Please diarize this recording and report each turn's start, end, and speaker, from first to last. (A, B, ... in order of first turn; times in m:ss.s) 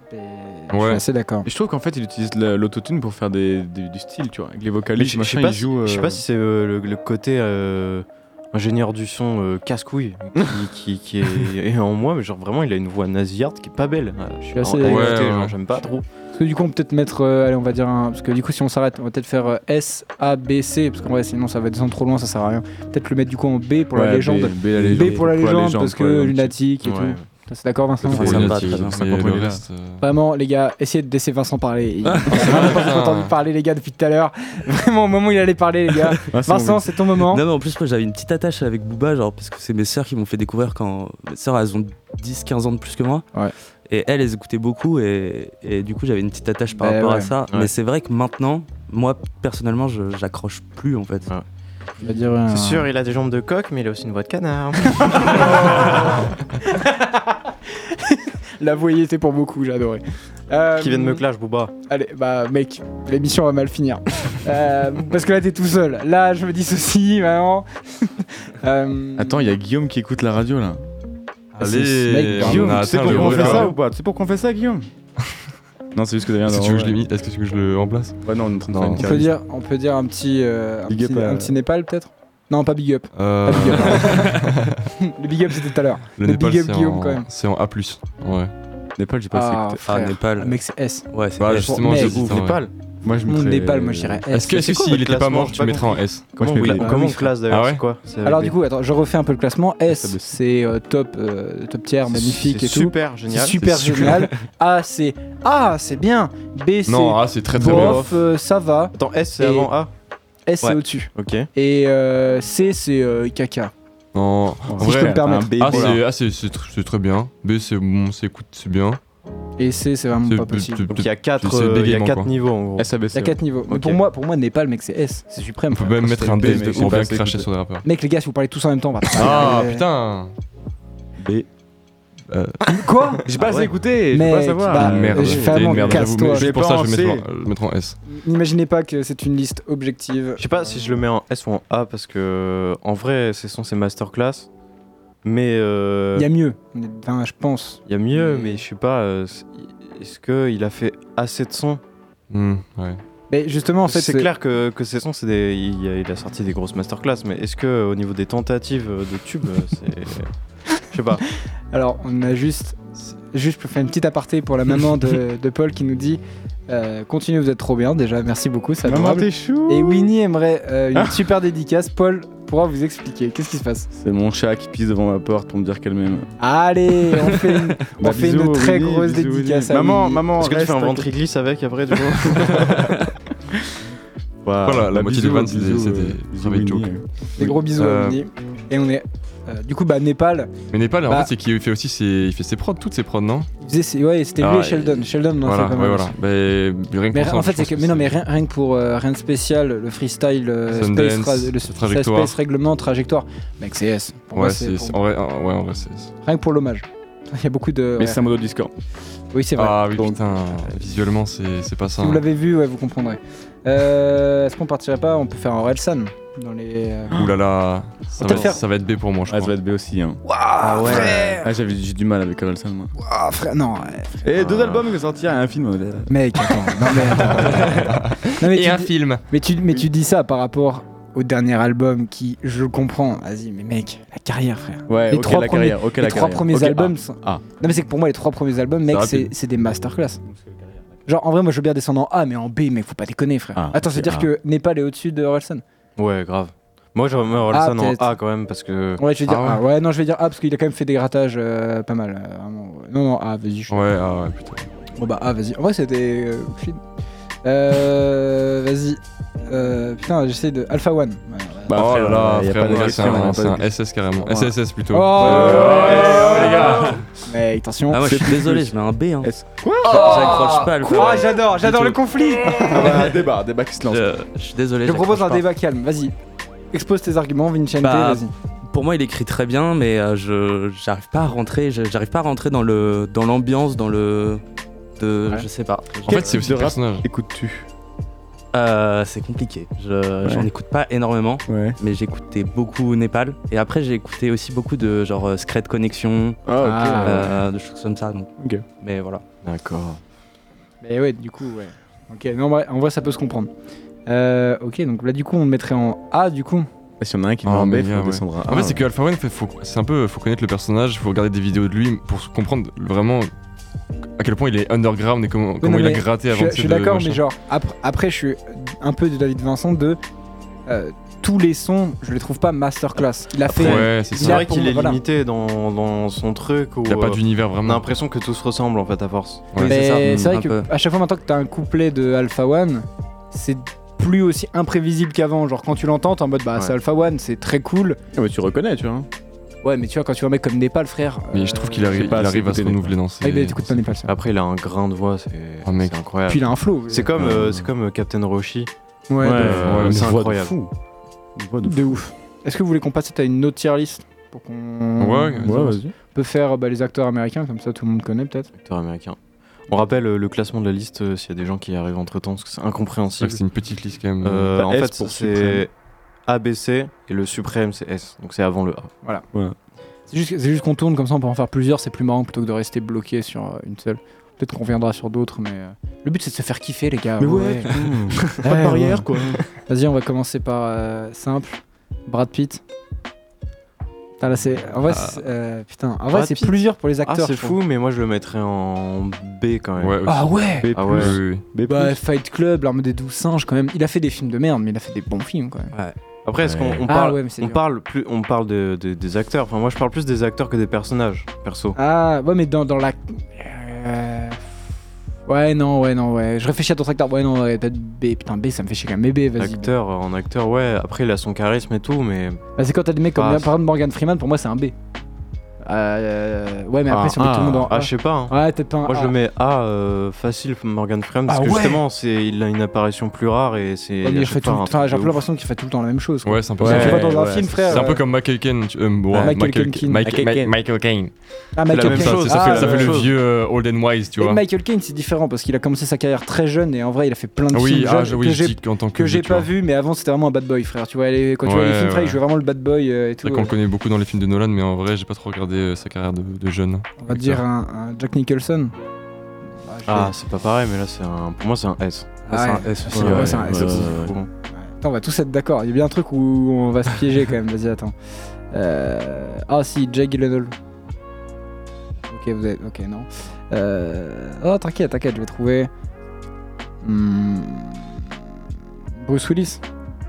0:00.1-0:01.5 A
0:00.7-0:01.0 B
0:01.4-0:06.2 C
0:05.0-0:16.0 D
0:14.5-0:15.2 A
0:14.8-0:15.6 B
0:16.3-0:28.3 A
0:23.9-0:26.5 C
0:26.8-0:27.2 D
0:28.0-0:29.6 C
0:28.1-0:30.0 B
0:28.1-0:29.0 E
0:30.0-0:37.4 A
0:32.3-0:33.3 B
0:36.3-0:37.0 C
0:37.3-0:43.2 E
0:43.9-0:51.3 E
0:46.8-0:47.3 A
0:52.0-0:52.9 A
0:52.5-0:56.1 D
0:55.0-1:01.2 A
1:00.8-1:01.7 D
1:01.9-1:09.5 A
1:09.2-1:10.8 C
1:11.5-1:13.8 A
1:11.6-1:13.7 B
1:12.4-1:14.9 C
1:15.9-1:17.0 C
1:16.4-1:18.2 B
1:18.2-1:19.3 C
1:18.7-1:19.0 D
1:19.0-1:24.4 A
1:20.9-1:21.5 C
1:23.1-1:24.8 B
1:25.0-1:27.3 A
1:26.2-1:28.5 B
1:29.0-1:29.8 C
1:29.3-1:32.2 A
1:29.8-1:30.6 E
1:31.1-1:32.6 E
1:31.4-1:32.6 B
1:32.2-1:34.2 C
1:33.2-1:34.7 A
1:34.3-1:36.7 B
1:34.5-1:38.6 D
1:36.4-1:37.1 C
1:36.8-1:37.3 A
1:37.5-1:37.8 B
1:38.2-1:49.7 A
1:39.9-1:40.3 C
1:42.1-1:44.0 D
1:43.6-1:44.2 C
1:46.9-1:48.0 B
1:47.5-1:48.1 C
1:49.0-1:49.9 D
1:50.5-1:53.7 A
1:51.1-1:51.5 D
1:54.1-1:59.0 B
1:54.7-1:56.0 C
1:54.8-1:56.0 A
1:59.6-2:00.9 A
2:00.2-2:02.3 B
2:00.9-2:02.9 D
2:02.8-2:03.4 C
2:03.1-2:07.0 A
2:03.7-2:04.0 D
2:05.7-2:07.8 B
2:06.2-2:07.5 C
2:07.8-2:09.8 A
2:09.1-2:10.3 B
2:09.2-2:09.6 C
2:11.2-2:11.4 C
2:12.3-2:12.8 B
2:12.7-2:13.2 A
2:13.2-2:17.2 C
2:13.4-2:13.7 D
2:14.1-2:16.5 A
2:14.7-2:18.0 B
2:18.0-2:20.9 A
2:20.4-2:24.5 D
2:25.2-2:26.3 D
2:26.1-2:28.6 A
2:27.9-2:31.8 D
2:32.3-2:33.0 B
2:33.3-2:34.3 A
2:33.9-2:40.3 D
2:40.9-2:41.2 D
2:41.7-2:53.9 A
2:48.8-2:50.1 C
2:50.9-2:51.3 C
2:54.0-2:56.3 C
2:56.4-3:00.2 A
2:57.9-3:01.1 C
3:00.4-3:02.9 D
3:02.3-3:02.8 C
3:04.4-3:07.6 C
3:04.6-3:06.9 B
3:07.4-3:10.5 A
3:07.7-3:08.2 B
3:10.7-3:13.5 B
3:13.6-3:16.2 A
3:14.4-3:18.2 B
3:17.1-3:25.0 A
3:20.7-3:22.4 B
3:24.3-3:26.1 B
3:26.2-3:28.2 A
3:28.0-3:28.7 C
3:29.3-3:29.8 A
3:29.6-3:32.2 B
3:32.0-3:37.2 A
3:37.1-3:39.5 B
3:38.2-3:38.6 A
3:39.3-3:40.2 C
3:40.2-3:41.5 A
3:40.6-3:41.2 E
3:40.9-3:42.9 C
3:43.0-3:44.2 A
3:44.2-3:47.7 C
3:44.4-3:44.7 D
3:46.1-4:00.2 A
3:47.4-3:49.2 B
3:54.9-3:57.4 C
3:58.9-3:59.3 B
4:01.0-4:05.6 A
4:03.5-4:04.3 C
4:06.0-4:09.0 D
4:07.5-4:08.1 A
4:09.0-4:13.8 A
4:09.2-4:09.6 B
4:13.7-4:14.7 B
4:15.0-4:16.8 A
4:17.4-4:21.8 A
4:21.7-4:24.5 C
4:21.7-4:27.0 B
4:24.9-4:28.3 A
4:25.2-4:27.0 C
4:27.9-4:29.3 E
4:28.0-4:30.5 C
4:29.8-4:32.0 E
4:29.8-4:33.1 A
4:32.4-4:34.1 C
4:32.8-4:33.1 E
4:33.9-4:35.4 E
4:34.8-4:36.1 A
4:36.7-4:38.3 A
4:37.8-4:44.4 E
4:45.0-4:46.3 E
4:46.0-4:47.7 C
4:46.1-4:47.0 B
4:48.5-4:56.4 E
4:50.2-4:50.5 C
4:51.5-4:51.8 C
4:56.4-4:57.4 C
4:56.6-4:57.3 A
4:57.0-4:59.2 E
4:58.4-4:58.6 C
4:59.4-5:00.0 D
5:00.8-5:03.5 A
5:04.1-5:06.7 A
5:07.0-5:08.8 C
5:07.4-5:13.3 B
5:14.2-5:17.2 B
5:15.6-5:20.0 A
5:20.7-5:25.0 A
5:23.5-5:29.5 D
5:23.6-5:24.4 B
5:26.9-5:27.8 B
5:29.6-5:30.7 E
5:29.6-5:38.0 A
5:38.1-5:39.1 C
5:39.6-5:42.2 A
5:41.3-5:43.8 B
5:41.9-5:43.0 C
5:43.2-5:44.1 A
5:44.1-5:48.7 D
5:45.6-5:45.9 B
5:46.3-5:47.1 A
5:47.1-5:47.7 C
5:49.1-5:49.5 A
5:49.2-5:50.7 C
5:49.3-5:50.6 D
5:49.6-5:50.1 B
5:51.4-5:52.0 C
5:51.6-5:58.5 A
5:55.0-5:55.7 B
5:55.4-5:55.9 C
5:58.6-5:59.2 D
5:59.7-6:03.4 D
6:03.2-6:04.6 B
6:04.2-6:05.7 D
6:04.6-6:05.6 C
6:06.2-6:08.9 D
6:10.1-6:22.6 A
6:17.2-6:19.5 C
6:24.2-6:27.6 A
6:26.1-6:30.0 D
6:29.8-6:31.4 B
6:30.0-6:31.0 A
6:30.6-6:32.0 C
6:30.7-6:31.2 D
6:31.6-6:35.7 A
6:36.2-6:41.8 D
6:36.4-6:36.8 C
6:36.9-6:37.6 A
6:41.8-6:44.5 A
6:45.3-6:49.7 A
6:49.4-6:52.4 D
6:52.6-6:54.7 A
6:53.1-6:53.5 D
6:55.6-6:59.1 A
6:56.9-6:57.7 C
6:57.7-7:05.2 D
7:01.3-7:01.8 A
7:04.0-7:08.0 A
7:06.2-7:11.2 B
7:06.6-7:07.9 C
7:09.2-7:10.2 A
7:10.0-7:10.6 C
7:11.5-7:13.0 A
7:11.7-7:14.4 B
7:11.7-7:13.1 D
7:14.2-7:23.5 A
7:17.5-7:19.5 B
7:21.4-7:22.2 B
7:23.2-7:27.4 B
7:27.0-7:28.7 A
7:29.6-7:30.1 A
7:29.9-7:32.2 D
7:32.3-7:33.2 E
7:32.3-7:34.0 A
7:32.9-7:34.2 C
7:33.0-7:34.3 D
7:34.5-7:37.9 A
7:38.5-7:40.6 A
7:42.1-7:45.7 A
7:46.8-7:48.1 A
7:49.0-7:49.6 A